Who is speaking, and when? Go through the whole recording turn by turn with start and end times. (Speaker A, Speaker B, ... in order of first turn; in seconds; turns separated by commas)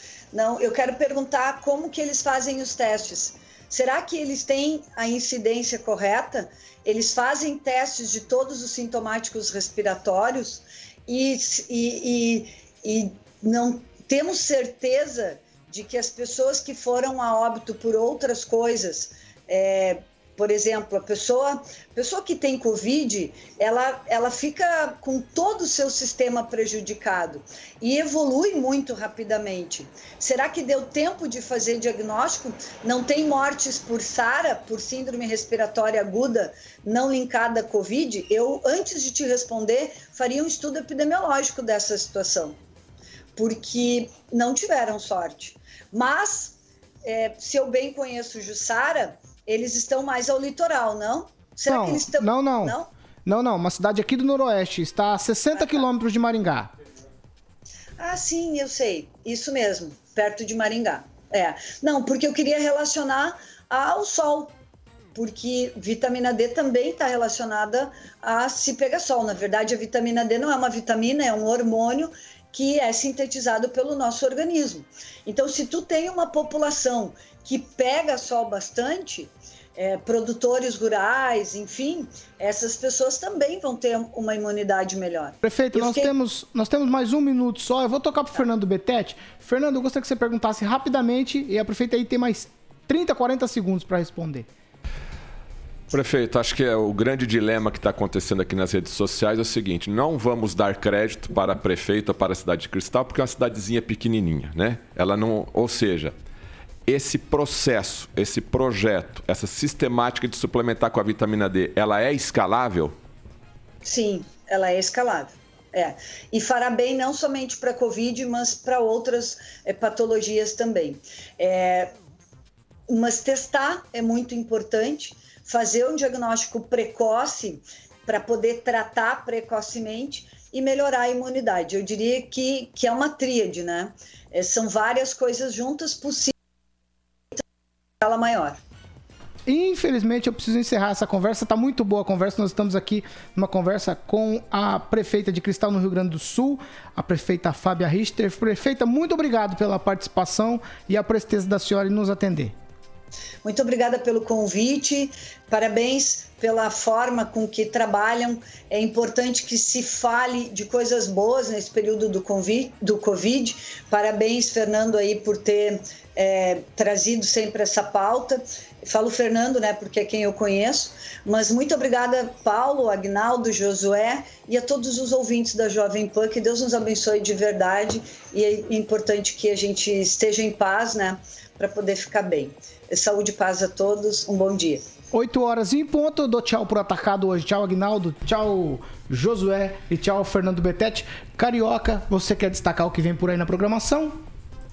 Speaker A: 0.3-42.6, Speaker A: 43.4-52.9, Speaker B: 51.7-56.7, Speaker A: 55.6-55.8, Speaker A: 58.0-64.5, Speaker A: 65.2-86.1, Speaker B: 85.4-94.5, Speaker C: 95.9-106.1, Speaker C: 106.9-112.9, Speaker A: 113.8-121.9, Speaker A: 122.9-136.3, Speaker A: 138.0-138.6, Speaker B: 139.5-152.6, Speaker A: 153.4-184.8, Speaker B: 185.1-194.2